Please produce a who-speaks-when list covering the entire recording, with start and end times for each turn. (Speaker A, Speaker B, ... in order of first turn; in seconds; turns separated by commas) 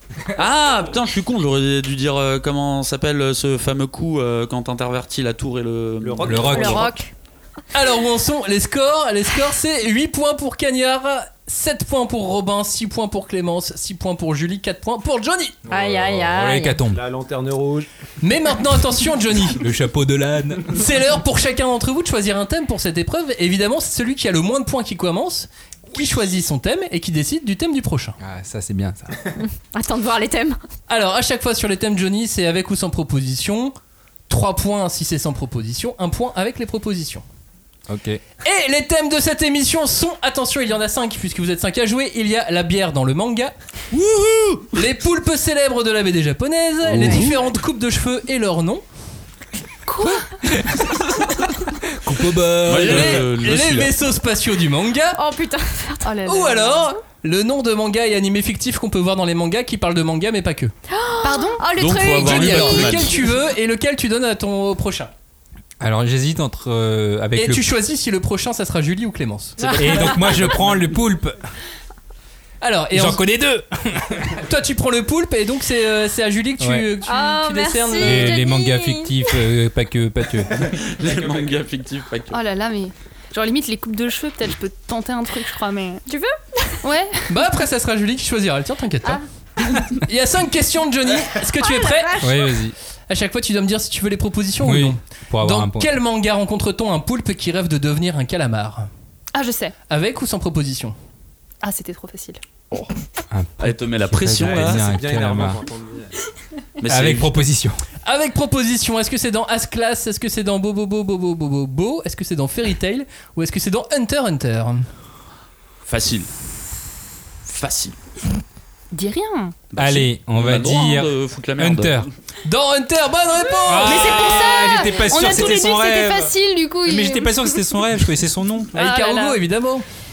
Speaker A: 0.3-6.9, Speaker B: 6.0-6.9, Speaker C: 6.2-6.8, Speaker D: 6.5-7.1, Speaker E: 7.7-15.6, Speaker D: 15.7-16.8, Speaker C: 15.7-17.0, Speaker B: 16.9-17.9, Speaker E: 18.2-19.6, Speaker C: 19.4-20.8, Speaker E: 20.7-28.2, Speaker C: 28.2-29.3, Speaker D: 29.4-30.6, Speaker E: 30.9-33.7, Speaker E: 34.3-37.2, Speaker C: 37.9-38.2, Speaker E: 38.4-43.5, Speaker A: 43.9-44.7, Speaker E: 44.7-48.8, Speaker C: 46.9-47.3, Speaker D: 47.0-47.3, Speaker F: 49.9-50.3, Speaker C: 52.0-53.2, Speaker A: 52.6-53.9, Speaker E: 52.7-55.2, Speaker D: 55.1-56.2, Speaker F: 56.0-56.9, Speaker E: 56.2-60.7, Speaker D: 60.9-63.1, Speaker F: 61.2-61.6, Speaker A: 61.7-63.2, Speaker E: 62.2-65.1, Speaker C: 65.8-67.7, Speaker E: 67.3-69.8, Speaker D: 69.6-70.5, Speaker C: 69.8-71.4, Speaker E: 72.6-73.2, Speaker C: 72.9-74.4, Speaker E: 74.4-78.3, Speaker C: 76.6-76.9, Speaker D: 77.0-79.4, Speaker C: 78.0-80.8, Speaker A: 80.5-82.4, Speaker F: 82.3-86.0, Speaker D: 86.1-86.8, Speaker F: 86.8-87.3, Speaker E: 87.3-89.2, Speaker E: 89.9-92.3, Speaker D: 91.6-92.6, Speaker C: 92.2-92.7, Speaker E: 93.1-98.9, Speaker C: 94.6-95.9, Speaker F: 99.3-99.7, Speaker E: 99.9-100.9, Speaker F: 101.6-102.4, Speaker C: 103.3-105.6, Speaker A: 103.6-104.9, Speaker B: 104.4-106.1, Speaker A: 106.8-107.5, Speaker C: 106.9-107.8, Speaker E: 108.0-114.9, Speaker A: 115.8-116.3, Speaker A: 117.4-118.0, Speaker F: 118.9-119.5, Speaker A: 119.7-122.1, Speaker C: 119.8-122.1, Speaker E: 122.4-124.5, Speaker C: 123.6-126.3, Speaker F: 123.8-127.8, Speaker C: 126.8-128.7, Speaker E: 128.7-129.8, Speaker F: 128.8-129.4